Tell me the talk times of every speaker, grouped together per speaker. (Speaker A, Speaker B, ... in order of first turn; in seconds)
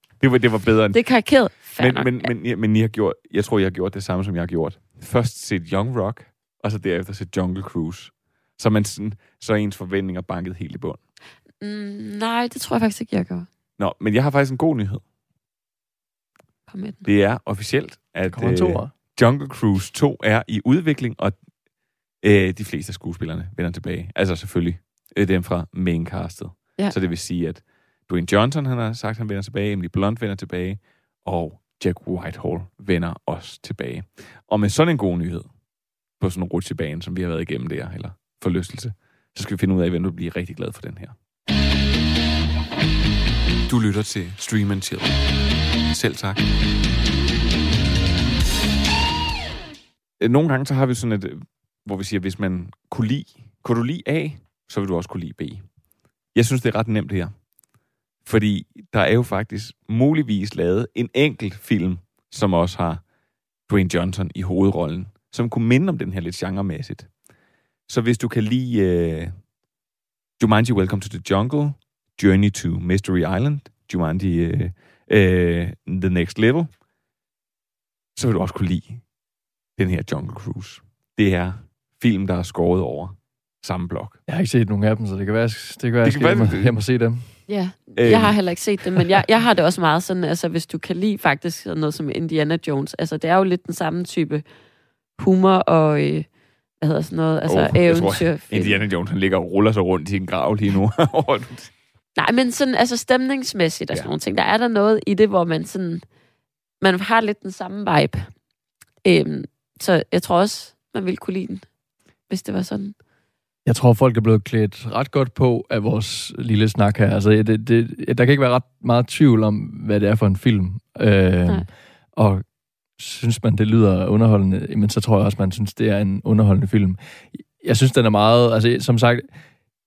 Speaker A: 0.2-1.0, 1.8-11.0, 13.8-15.0, 17.1-21.4, 22.2-35.5, 36.2-41.1, 43.7-45.2, 45.9-46.5, 50.2-55.6, 56.3-57.3, 58.2-63.0, 63.7-67.1, 67.9-69.3, 70.4-76.7, 78.2-79.0, 79.8-84.2, 86.0-86.8, 88.0-88.4, 97.5-101.7
Speaker B: 0.9-2.3, 11.6-13.5, 16.7-17.1, 87.5-94.4, 95.2-96.3, 96.8-98.8, 102.2-106.0, 106.8-108.3, 109.0-111.6, 112.3-113.0
Speaker C: 18.3-18.9, 84.3-87.3, 113.7-122.4, 123.0-129.3